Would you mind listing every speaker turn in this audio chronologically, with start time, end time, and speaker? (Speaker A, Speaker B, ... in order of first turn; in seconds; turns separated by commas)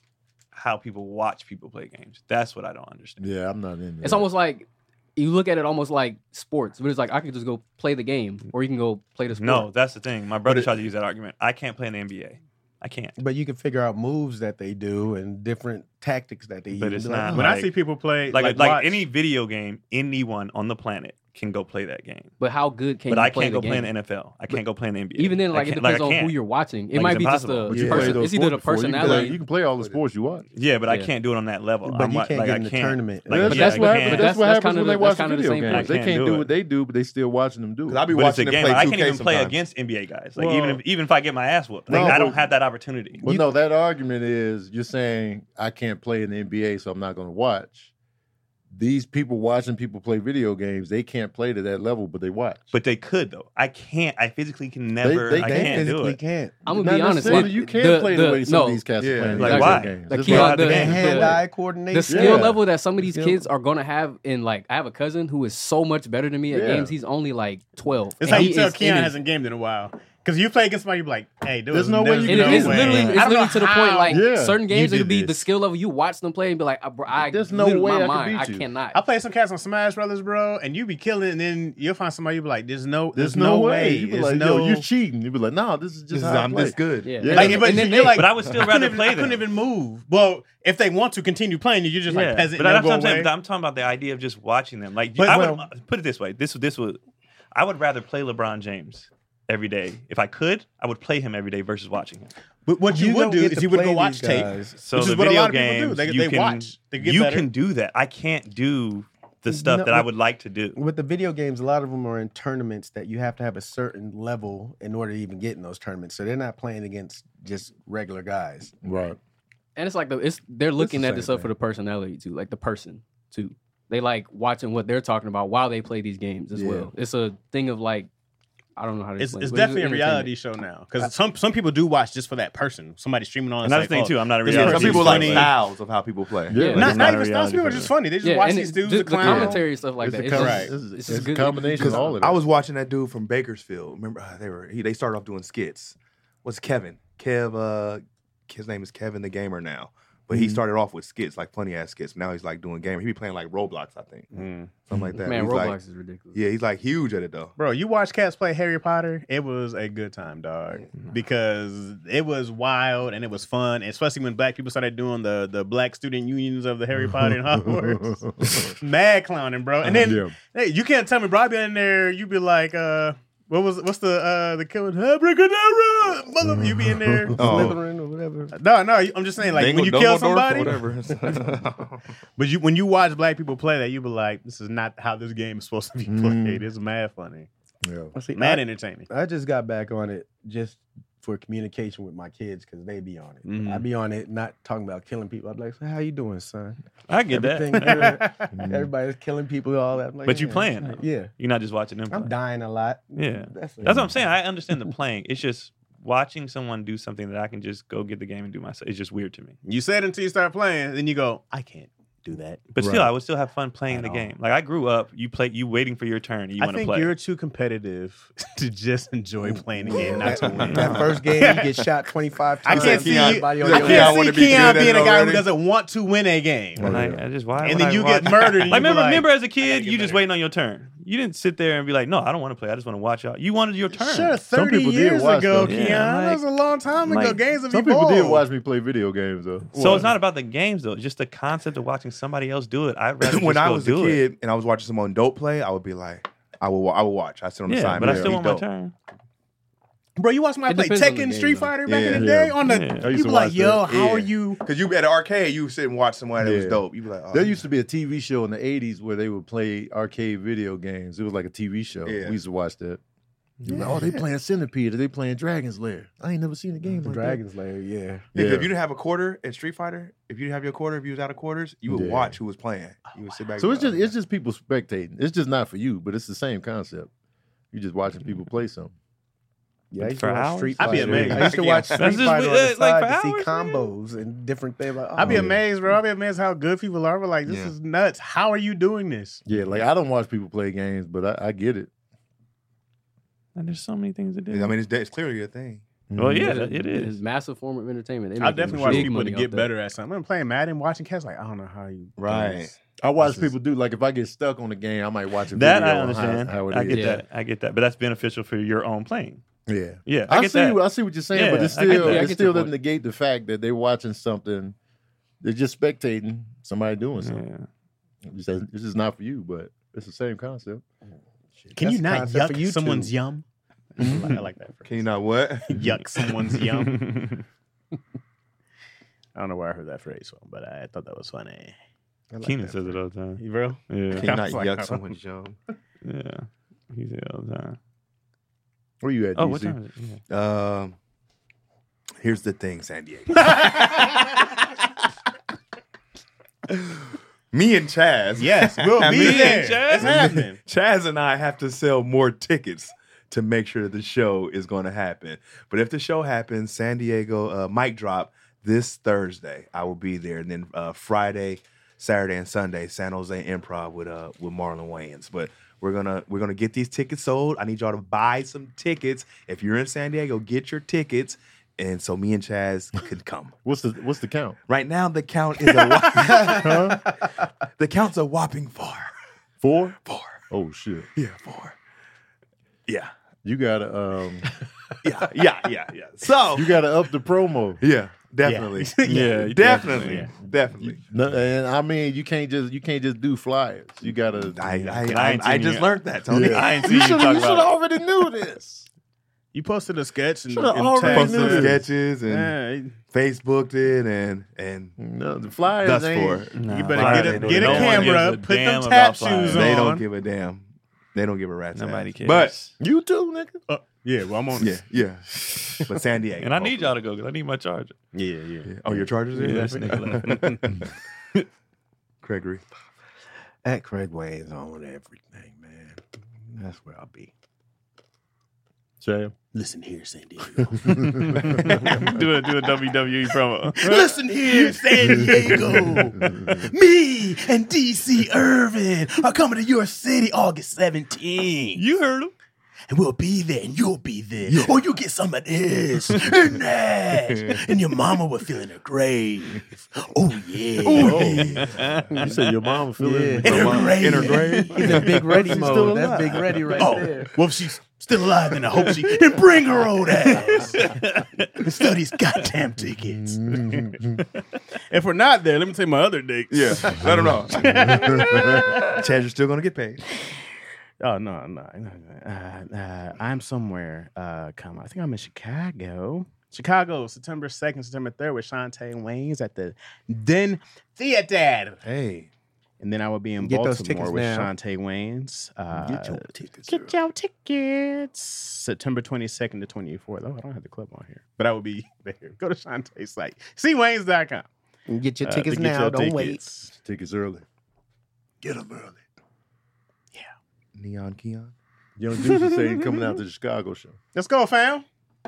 Speaker A: 0.5-3.2, Speaker B: 3.2-4.3, Speaker C: 4.0-9.7, Speaker A: 9.3-13.1, Speaker D: 10.4-10.8, Speaker E: 13.2-17.5, Speaker A: 16.8-17.7, Speaker F: 17.3-19.0, Speaker A: 18.3-22.3, Speaker C: 22.4-23.9, Speaker A: 23.1-26.4, Speaker C: 25.1-29.4, Speaker A: 26.9-28.2, Speaker B: 27.7-30.5, Speaker D: 29.0-30.0, Speaker A: 30.5-34.3, Speaker C: 30.9-31.1, Speaker E: 31.8-34.0, Speaker B: 33.3-38.1, Speaker C: 33.5-35.9, Speaker A: 35.6-36.5, Speaker D: 37.9-39.5, Speaker A: 38.1-43.2, Speaker F: 40.4-40.8, Speaker B: 41.9-42.4, Speaker E: 41.9-42.2, Speaker B: 43.2-47.9, Speaker B: 48.7-52.7, Speaker A: 52.7-56.2, Speaker B: 55.0-55.9, Speaker E: 55.3-57.5, Speaker C: 56.6-58.8, Speaker B: 56.7-61.3, Speaker D: 59.0-59.8, Speaker A: 59.3-61.4, Speaker C: 59.4-69.1, Speaker E: 60.3-62.6, Speaker B: 62.1-62.6, Speaker E: 63.1-63.4, Speaker B: 66.5-66.9, Speaker F: 68.2-74.2, Speaker B: 71.7-73.1, Speaker C: 72.3-79.0, Speaker A: 72.6-73.2, Speaker B: 74.1-75.5, Speaker B: 77.1-78.7, Speaker F: 78.9-84.9, Speaker B: 83.1-87.7, Speaker D: 86.1-87.6, Speaker C: 87.0-88.3, Speaker F: 87.3-93.3, Speaker A: 88.0-89.4, Speaker A: 92.1-97.0, Speaker F: 95.2-95.6, Speaker A: 97.5-102.3, Speaker F: 102.7-107.5, Speaker E: 102.8-104.8, Speaker A: 104.8-110.8, Speaker E: 109.5-110.1, Speaker E: 110.7-118.7, Speaker B: 118.8-119.2, Speaker C: 119.8-128.1, Speaker E: 120.8-121.5, Speaker B: 126.5-126.9, Speaker C: 128.8-130.3, Speaker F: 129.2-135.5, Speaker A: 133.6-135.5, Speaker D: 134.4-137.2, Speaker B: 136.5-137.0, Speaker C: 136.5-136.9, Speaker F: 136.8-139.6, Speaker A: 136.8-137.9, Speaker C: 138.2-142.2, Speaker B: 139.2-142.4, Speaker F: 140.3-140.7, Speaker D: 141.8-155.8, Speaker B: 150.3-150.6, Speaker F: 154.3-154.7, Speaker B: 154.9-155.7, Speaker C: 155.1-156.4, Speaker D: 156.3-157.5, Speaker F: 157.6-177.4, Speaker B: 167.1-168.8, Speaker B: 169.8-170.3, Speaker B: 176.4-177.8, Speaker E: 177.4-178.5, Speaker D: 177.4-177.8, Speaker F: 178.5-180.8, Speaker D: 179.4-182.0, Speaker F: 182.4-187.5, Speaker B: 186.1-186.7, Speaker B: 187.8-188.1, Speaker E: 188.1-201.3, Speaker F: 188.3-189.1, Speaker F: 193.4-193.8, Speaker A: 197.1-198.2, Speaker F: 197.8-198.3, Speaker B: 198.5-198.9, Speaker A: 200.2-202.3, Speaker E: 202.1-204.9, Speaker A: 203.2-209.5, Speaker B: 203.8-204.2, Speaker F: 209.6-212.7, Speaker A: 212.7-217.1, Speaker B: 212.8-213.1, Speaker F: 213.9-214.3, Speaker F: 216.6-221.8, Speaker E: 219.8-225.1, Speaker D: 220.0-221.8, Speaker A: 220.7-221.1, Speaker F: 222.6-227.0, Speaker D: 222.7-225.4, Speaker B: 226.8-227.2, Speaker A: 226.8-234.4, Speaker F: 227.6-229.3, Speaker D: 228.7-228.9, Speaker D: 229.6-230.2, Speaker F: 233.9-238.4, Speaker B: 234.5-235.8, Speaker A: 235.6-236.4, Speaker A: 237.0-237.4, Speaker B: 237.7-239.7, Speaker A: 239.7-244.2, Speaker F: 239.7-240.1, Speaker D: 243.2-248.7, Speaker A: 247.7-248.9, Speaker B: 248.0-248.3, Speaker F: 250.2-254.6, Speaker C: 250.7-251.8, Speaker D: 251.8-252.3, Speaker B: 252.1-254.0, Speaker A: 252.6-253.1, Speaker D: 253.9-257.6, Speaker B: 256.4-263.0, Speaker D: 262.0-262.4, Speaker B: 263.6-267.4, Speaker D: 263.8-264.1, Speaker E: 267.0-268.2, Speaker B: 268.3-268.7, Speaker D: 268.3-274.1, Speaker B: 271.9-272.4, Speaker B: 273.6-277.1, Speaker B: 277.7-278.9, Speaker E: 279.9-285.5, Speaker A: 280.0-283.9, Speaker F: 280.8-281.7, Speaker B: 280.9-281.5, Speaker D: 281.1-282.2, Speaker F: 285.2-289.4, Speaker B: 285.2-285.6, Speaker D: 287.4-287.7, Speaker B: 289.4-291.9, Speaker A: 293.6-294.8, Speaker D: 294.5-295.9, Speaker B: 296.1-296.7, Speaker A: 296.2-297.2, Speaker C: 296.3-299.7, Speaker F: 298.4-303.5, Speaker D: 302.2-302.7, Speaker B: 303.0-307.0, Speaker A: 305.5-309.4, Speaker C: 306.9-307.2, Speaker B: 309.7-314.7, Speaker A: 310.1-310.8, Speaker A: 311.3-312.4, Speaker C: 311.7-312.7, Speaker B: 315.4-317.4, Speaker A: 317.2-317.7, Speaker B: 318.2-320.8, Speaker E: 321.7-323.1, Speaker F: 321.7-325.1, Speaker B: 324.0-324.3, Speaker D: 324.8-325.9, Speaker F: 325.6-327.2, Speaker A: 326.7-327.4, Speaker F: 329.3-331.8, Speaker E: 332.3-333.0, Speaker A: 332.4-334.3, Speaker F: 333.4-335.1, Speaker D: 334.1-335.6, Speaker A: 336.0-337.8, Speaker B: 339.0-339.8, Speaker A: 339.4-340.2, Speaker D: 340.3-340.9, Speaker D: 342.2-344.7, Speaker D: 346.7-373.5, Speaker F: 348.4-350.6, Speaker A: 349.1-350.1, Speaker B: 373.6-374.6, Speaker D: 374.7-377.1, Speaker B: 376.6-377.1, Speaker D: 377.8-379.1, Speaker B: 379.6-379.9, Speaker D: 380.0-380.4, Speaker B: 380.5-381.1, Speaker D: 381.1-381.8, Speaker D: 382.9-383.1, Speaker B: 383.4-384.5, Speaker D: 385.0-386.8, Speaker B: 386.5-387.8, Speaker D: 387.8-391.0, Speaker F: 388.4-390.3, Speaker A: 389.1-390.3, Speaker B: 389.7-390.2, Speaker B: 390.8-395.0, Speaker D: 394.4-397.2, Speaker A: 394.9-397.7, Speaker B: 396.3-398.9, Speaker F: 399.5-403.0, Speaker B: 400.5-401.8, Speaker D: 401.1-402.5, Speaker D: 403.1-405.0, Speaker B: 405.0-408.2, Speaker D: 405.8-408.2, Speaker A: 406.5-409.9, Speaker F: 406.7-410.0, Speaker D: 409.5-412.6, Speaker A: 411.7-412.7, Speaker B: 412.8-413.6, Speaker F: 413.7-414.8, Speaker D: 414.5-417.0, Speaker A: 416.4-417.9, Speaker F: 418.1-418.7, Speaker D: 418.6-420.9, Speaker A: 419.4-420.6, Speaker D: 422.2-422.6, Speaker E: 423.6-426.0, Speaker E: 426.5-427.3, Speaker B: 429.0-429.3, Speaker F: 429.5-442.0, Speaker B: 430.8-432.2, Speaker A: 431.1-434.1, Speaker B: 435.1-436.7, Speaker A: 441.8-442.3, Speaker F: 442.9-451.8, Speaker D: 447.2-447.6, Speaker B: 450.8-453.9, Speaker D: 450.8-451.7, Speaker A: 451.0-452.7, Speaker E: 453.0-457.4, Speaker F: 453.4-455.9, Speaker D: 453.4-457.1, Speaker F: 456.7-464.0, Speaker A: 460.2-461.7, Speaker E: 460.6-461.0, Speaker B: 463.1-464.2, Speaker A: 464.3-464.6, Speaker F: 464.9-469.0, Speaker D: 466.5-470.0, Speaker B: 467.8-468.7, Speaker F: 471.0-481.8, Speaker D: 481.8-482.3, Speaker F: 482.8-494.5, Speaker E: 483.4-484.5, Speaker E: 485.9-486.2, Speaker B: 486.6-486.9, Speaker E: 494.9-496.5, Speaker F: 495.2-496.7, Speaker B: 496.7-497.4, Speaker B: 498.4-499.0, Speaker D: 500.7-501.5, Speaker B: 502.0-504.0, Speaker F: 502.1-503.2, Speaker F: 504.1-504.8